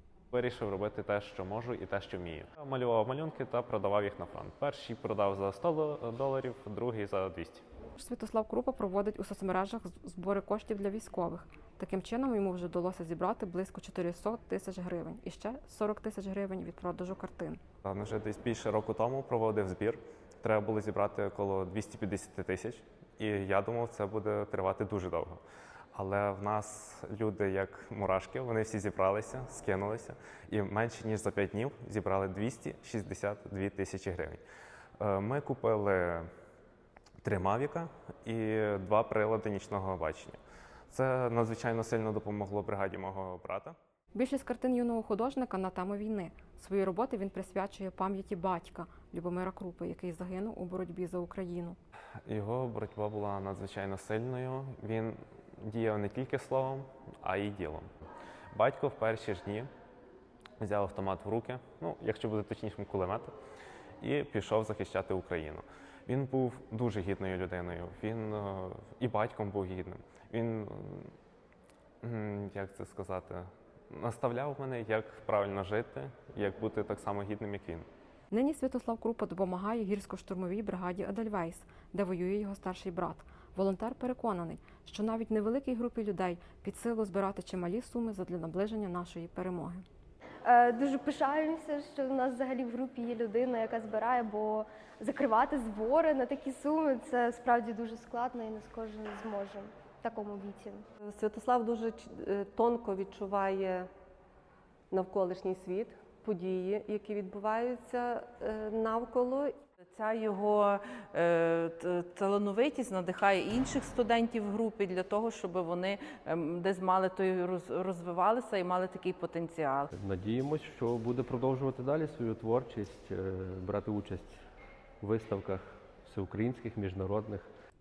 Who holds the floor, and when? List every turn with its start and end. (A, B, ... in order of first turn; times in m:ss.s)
0:00.3-0:07.6 A
0:08.0-0:17.6 B
0:17.8-0:25.4 A
0:25.9-0:34.4 A
0:35.0-0:36.3 A
0:37.2-0:40.4 A
0:40.9-0:43.8 A
0:44.1-0:51.8 B
0:52.3-0:57.9 A
0:58.5-0:59.7 A
1:00.6-1:03.3 A
1:04.0-1:11.1 A
1:12.0-1:17.9 A
1:18.3-1:29.8 B
1:30.4-1:40.8 C
1:41.0-1:43.9 D
1:44.9-1:49.6 D
1:49.8-1:59.9 E
1:59.9-2:04.4 F
2:05.0-2:07.5 F